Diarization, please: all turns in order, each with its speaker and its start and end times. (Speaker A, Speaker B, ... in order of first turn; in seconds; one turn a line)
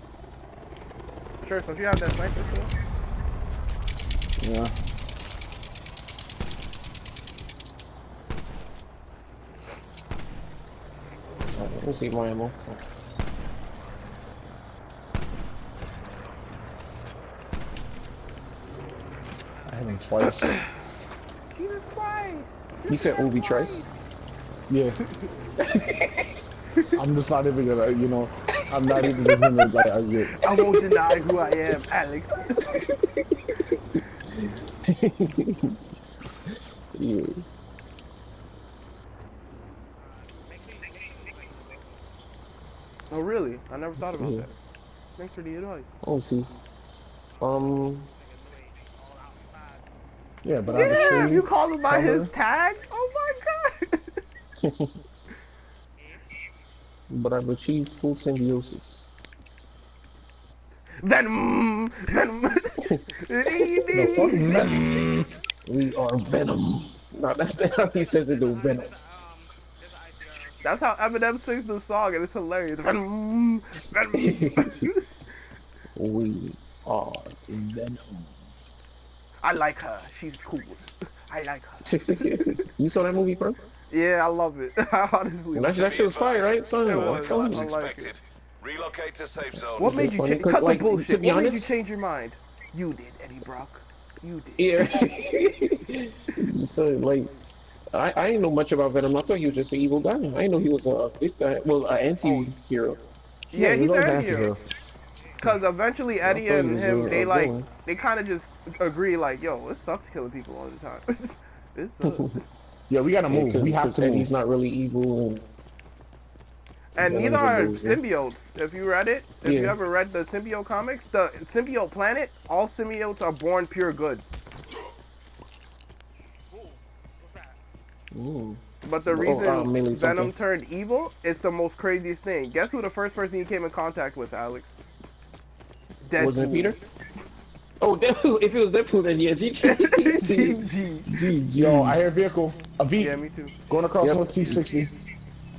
Speaker A: 1.4-2.7
Speaker B: 4.4-4.7
Speaker C: 11.5-12.8
Speaker B: 19.7-20.6
Speaker A: 21.5-23.9
Speaker C: 22.9-23.9
Speaker B: 24.7-25.0
Speaker A: 25.0-25.3
Speaker C: 25.6-26.3
Speaker B: 26.9-30.5
Speaker C: 29.0-29.3
Speaker A: 30.4-32.8
Speaker C: 30.6-31.2
Speaker C: 32.6-33.2
Speaker C: 34.3-35.8
Speaker C: 36.9-37.5
Speaker D: 40.0-42.0
Speaker A: 43.1-44.5
Speaker C: 44.0-44.5
Speaker A: 45.2-45.9
Speaker C: 46.0-46.5
Speaker D: 47.3-49.9
Speaker C: 47.4-48.1
Speaker B: 50.4-52.3
Speaker A: 50.7-54.1
Speaker C: 50.9-51.4
Speaker C: 54.6-54.9
Speaker D: 56.0-56.3
Speaker C: 57.1-59.1
Speaker A: 61.0-64.7
Speaker C: 63.6-64.2
Speaker B: 63.9-65.3
Speaker C: 65.7-68.9
Speaker D: 67.9-70.7
Speaker A: 70.6-75.0
Speaker C: 74.1-74.9
Speaker C: 76.0-78.3
Speaker A: 79.4-82.6
Speaker C: 81.8-83.6
Speaker A: 83.9-86.0
Speaker C: 85.5-87.7
Speaker E: 85.8-90.0
Speaker A: 86.8-88.1
Speaker C: 89.8-91.7
Speaker A: 89.8-95.0
Speaker C: 94.6-97.3
Speaker C: 97.9-103.0
Speaker A: 102.2-102.5
Speaker A: 103.5-104.5
Speaker B: 103.5-104.6
Speaker C: 103.7-104.2
Speaker D: 105.2-105.5
Speaker A: 105.4-112.4
Speaker C: 106.2-107.7
Speaker C: 112.0-112.3
Speaker B: 112.9-114.3
Speaker C: 113.3-115.4
Speaker A: 117.0-124.2
Speaker C: 117.0-118.0
Speaker C: 119.4-119.8
Speaker D: 126.5-127.6
Speaker C: 128.1-130.3
Speaker A: 128.8-134.7
Speaker A: 136.0-136.8
Speaker C: 136.2-136.8
Speaker C: 137.8-142.0
Speaker A: 139.6-141.3
Speaker B: 141.5-144.9
Speaker A: 143.0-143.5
Speaker C: 144.0-144.7